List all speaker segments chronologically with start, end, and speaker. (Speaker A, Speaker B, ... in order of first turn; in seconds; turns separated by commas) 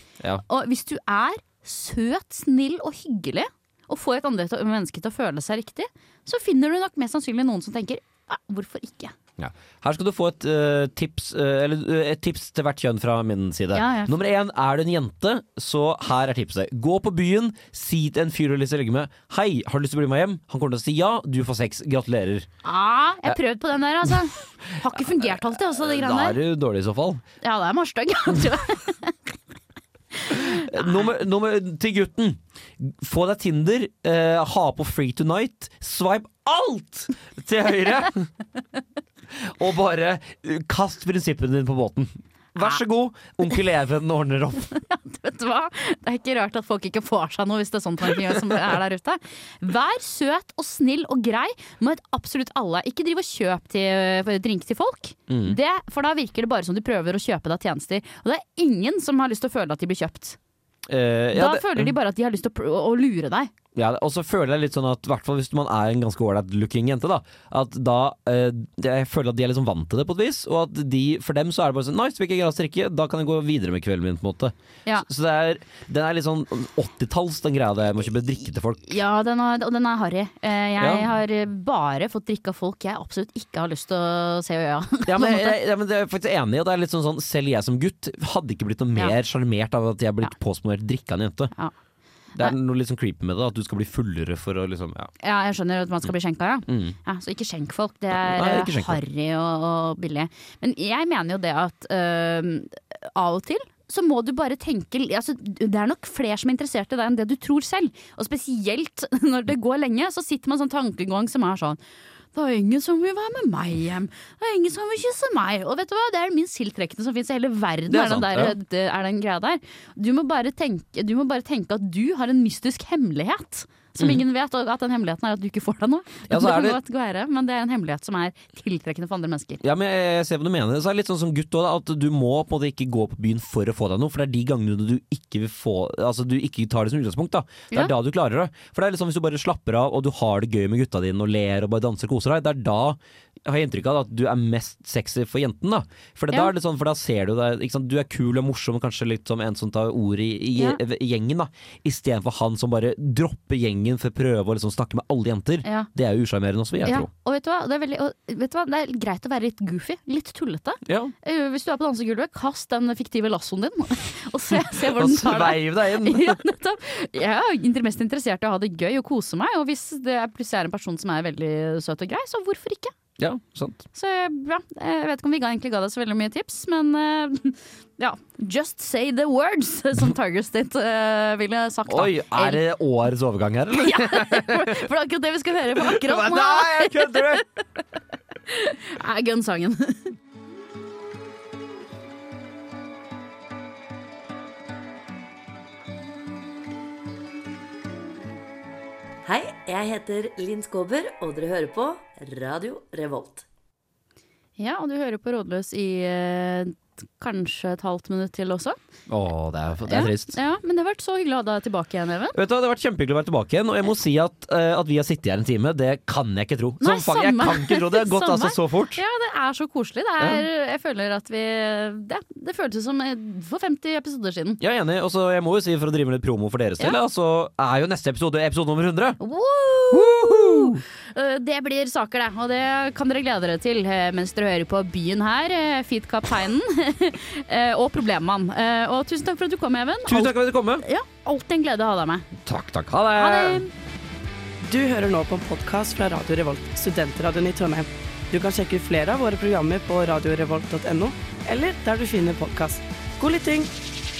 Speaker A: 0.5-9.1, Speaker B: 9.4-22.5, Speaker A: 13.7-14.1, Speaker A: 22.6-26.4, Speaker B: 24.9-27.2, Speaker A: 27.4-29.1, Speaker A: 30.3-31.1, Speaker B: 30.3-38.3, Speaker B: 39.3-44.7, Speaker A: 44.8-60.4, Speaker B: 55.3-55.6, Speaker B: 60.9-61.9, Speaker A: 61.3-63.5, Speaker B: 63.7-79.0, Speaker A: 78.8-85.6, Speaker B: 80.8-81.1, Speaker B: 85.0-91.5, Speaker B: 92.3-95.1, Speaker A: 95.2-111.8, Speaker B: 96.7-97.0, Speaker B: 98.3-99.0, Speaker A: 112.3-129.6, Speaker B: 117.9-118.5, Speaker B: 126.3-126.8, Speaker B: 129.6-157.1, Speaker A: 156.8-172.9, Speaker B: 160.8-161.1, Speaker B: 164.7-166.4, Speaker B: 173.2-173.8, Speaker A: 173.9-182.6, Speaker B: 181.9-184.9, Speaker A: 183.8-187.4, Speaker B: 185.7-187.4, Speaker A: 188.5-190.1, Speaker C: 199.2-203.4, Speaker A: 204.6-208.8, Speaker B: 209.1-210.3, Speaker A: 209.9-212.4, Speaker B: 212.3-219.0, Speaker A: 216.8-224.6, Speaker B: 224.6-229.2, Speaker A: 229.2-242.3, Speaker B: 229.9-230.8, Speaker B: 240.1-240.8, Speaker B: 242.4-243.6, Speaker A: 243.2-243.7, Speaker D: 244.7-253.7